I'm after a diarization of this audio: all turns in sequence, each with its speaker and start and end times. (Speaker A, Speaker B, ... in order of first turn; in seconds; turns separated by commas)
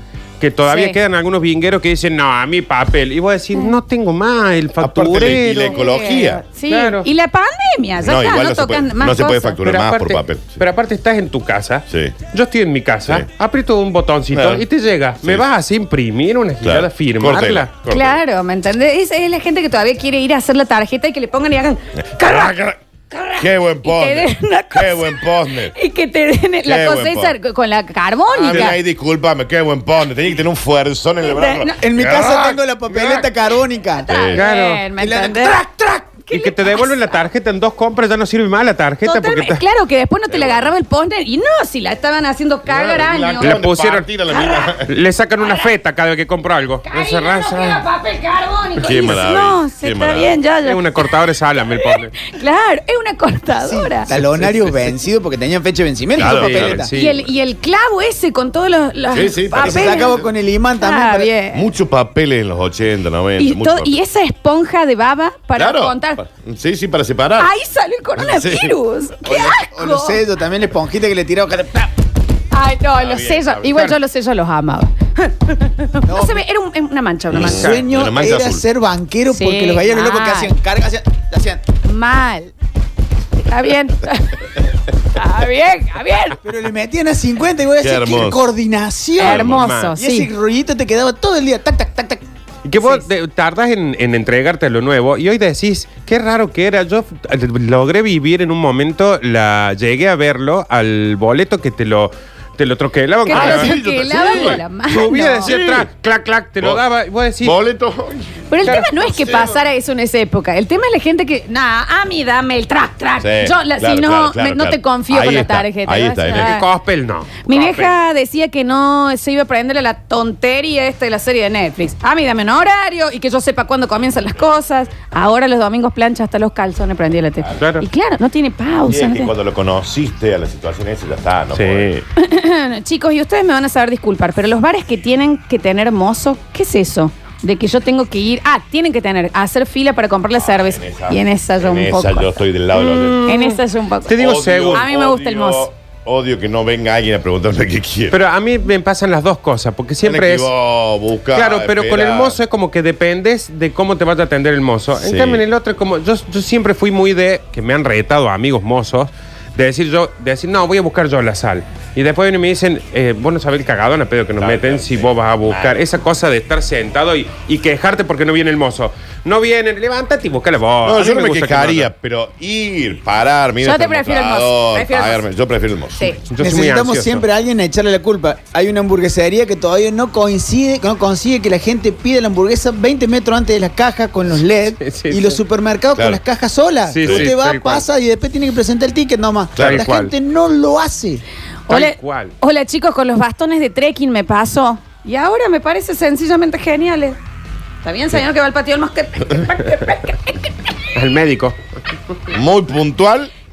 Speaker A: 0.4-5.8, Speaker B: 0.7-1.0, Speaker C: 4.8-6.4, Speaker B: 5.4-9.6, Speaker A: 6.7-7.1, Speaker C: 8.0-10.6, Speaker A: 9.6-18.0, Speaker C: 11.9-12.2, Speaker C: 14.3-14.6, Speaker C: 16.6-18.0, Speaker B: 17.9-22.6, Speaker C: 22.0-22.8, Speaker B: 23.1-28.8, Speaker C: 23.4-25.7, Speaker C: 26.6-27.4, Speaker A: 28.4-28.7, Speaker C: 28.4-32.5, Speaker B: 31.2-31.8, Speaker D: 31.8-34.1, Speaker C: 34.1-34.4, Speaker B: 34.1-37.2, Speaker A: 34.4-34.9, Speaker D: 34.9-36.0, Speaker A: 36.3-39.6, Speaker B: 39.0-43.6, Speaker C: 40.3-40.7, Speaker C: 42.6-44.9, Speaker A: 43.4-44.1, Speaker B: 44.3-44.7, Speaker A: 44.8-47.8, Speaker B: 45.4-45.7, Speaker B: 46.9-51.1, Speaker C: 48.8-50.4, Speaker A: 50.6-52.1, Speaker B: 51.8-54.1, Speaker D: 53.6-56.9, Speaker C: 56.1-56.9, Speaker A: 56.2-57.3, Speaker B: 56.9-60.2, Speaker C: 59.1-60.3, Speaker D: 59.6-61.3, Speaker B: 60.8-61.7, Speaker C: 61.5-64.0, Speaker B: 63.4-66.2, Speaker C: 65.6-67.5, Speaker B: 67.4-70.2, Speaker C: 68.2-68.8, Speaker D: 69.2-71.9, Speaker B: 72.5-77.7, Speaker C: 73.0-73.9, Speaker D: 76.1-76.4, Speaker C: 77.3-78.6, Speaker D: 77.5-81.6, Speaker B: 79.3-80.5, Speaker B: 81.8-82.5, Speaker B: 83.5-84.5, Speaker B: 85.1-86.4, Speaker D: 86.4-92.2, Speaker C: 87.8-88.5, Speaker B: 89.2-90.3, Speaker A: 89.2-89.9, Speaker A: 92.6-107.6, Speaker B: 103.3-105.5, Speaker C: 103.3-104.6, Speaker C: 105.5-105.9, Speaker C: 107.4-108.3, Speaker B: 108.5-116.7, Speaker A: 108.6-109.1, Speaker C: 109.1-109.6, Speaker C: 113.2-116.5, Speaker A: 116.3-118.0, Speaker B: 117.5-129.3, Speaker A: 127.6-127.8, Speaker C: 128.9-132.0, Speaker A: 131.5-132.0, Speaker B: 132.2-142.4, Speaker C: 140.3-143.2, Speaker A: 142.8-144.8, Speaker B: 143.2-144.2, Speaker C: 144.1-148.2, Speaker B: 144.7-145.7, Speaker A: 148.1-150.5, Speaker C: 150.0-152.4, Speaker A: 151.3-171.9, Speaker C: 154.9-155.4, Speaker C: 164.4-165.8, Speaker C: 170.8-176.1, Speaker B: 173.6-175.2, Speaker A: 176.3-177.2, Speaker D: 176.4-191.2, Speaker A: 184.8-185.4, Speaker C: 185.9-186.2, Speaker A: 186.9-187.9, Speaker C: 187.0-187.3, Speaker C: 189.6-189.9, Speaker A: 189.6-190.1, Speaker B: 191.7-197.2, Speaker A: 191.7-192.3, Speaker B: 197.8-200.5, Speaker A: 200.9-201.6, Speaker C: 202.3-203.3